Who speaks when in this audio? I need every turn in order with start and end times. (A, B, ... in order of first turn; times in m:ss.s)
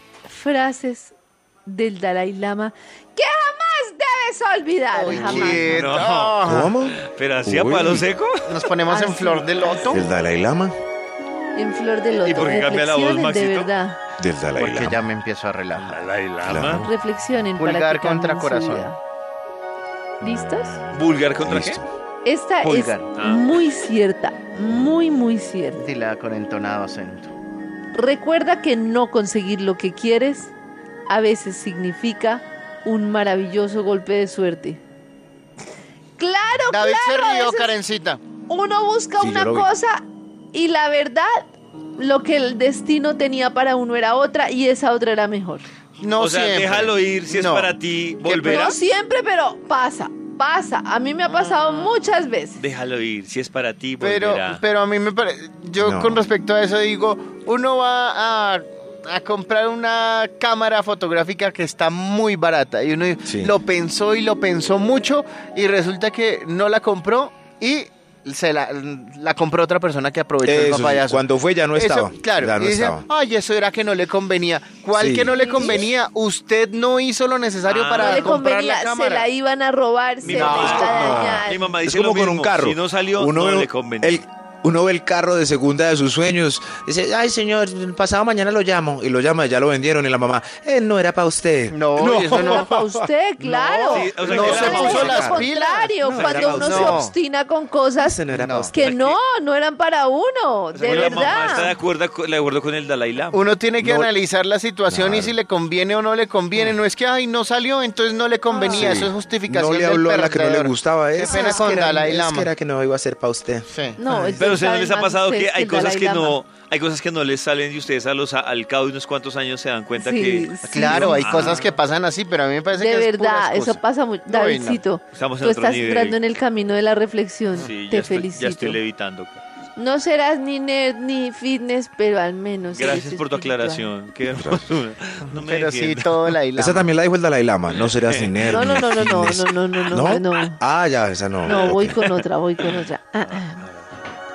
0:00.3-0:01.1 A
0:01.7-0:05.9 A
0:04.9-0:06.7 B
0:05.2-0:08.7 C
0:06.4-0:08.1 D
0:08.5-0:10.1 B
0:08.9-0:10.0 A
0:09.9-0:10.7 D
0:11.6-0:14.0 A
0:12.2-0:13.7 C
0:14.2-0:15.0 D
0:14.6-0:16.0 B
0:15.8-0:16.9 C
0:16.4-0:16.9 D
0:16.7-0:19.0 A
0:17.6-0:18.9 B
0:20.2-0:20.8 A
0:20.2-0:21.9 D
0:20.9-0:21.8 C
0:22.2-0:25.8 A
0:22.6-0:23.1 B
0:23.1-0:23.5 C
0:25.8-0:27.3 B
0:27.9-0:30.5 A
0:31.1-0:34.8 A
0:36.2-0:37.8 A
0:36.7-0:38.2 B
0:38.5-0:41.5 A
0:39.2-0:39.7 D
0:42.0-0:45.6 A
0:46.0-0:47.7 B
0:46.2-0:48.8 C
0:48.3-0:48.7 B
0:48.4-0:52.6 A
0:51.2-0:51.9 B
0:52.6-0:54.6 C
0:54.0-1:19.3 B
0:55.8-0:56.2 D
1:03.2-1:03.5 D
1:10.4-1:13.0 D
1:15.0-1:15.4 D
1:15.4-1:15.9 A
1:17.7-1:18.3 C
1:17.9-1:21.7 A
1:20.2-1:24.2 C
1:20.2-1:21.2 B
1:20.4-1:33.1 D
1:31.7-1:32.8 B
1:32.3-1:41.8 A
1:33.4-1:37.1 B
1:33.9-1:35.4 C
1:34.3-1:35.5 D
1:36.0-1:37.0 D
1:38.0-1:38.7 D
1:38.3-1:38.8 B
1:38.8-1:39.2 C
1:40.8-1:43.4 C
1:40.9-1:41.2 B
1:43.3-1:52.5 B
1:43.8-1:44.1 D
1:44.9-1:45.3 D
1:48.5-1:49.0 A
1:48.7-1:53.7 D
1:51.2-1:51.8 A
1:53.7-1:54.6 B
1:54.0-1:56.4 A
1:54.4-2:01.7 C
2:00.0-2:01.4 A
2:00.7-2:04.8 B
2:02.7-2:08.8 A
2:05.1-2:06.2 C
2:07.6-2:09.4 C
2:09.8-2:13.9 A
2:12.7-2:16.3 C
2:14.3-2:14.7 D
2:15.4-2:16.9 B
2:16.6-2:22.1 D
2:17.8-2:18.5 C
2:18.5-2:20.6 A
2:21.4-2:23.6 A
2:23.2-2:23.9 C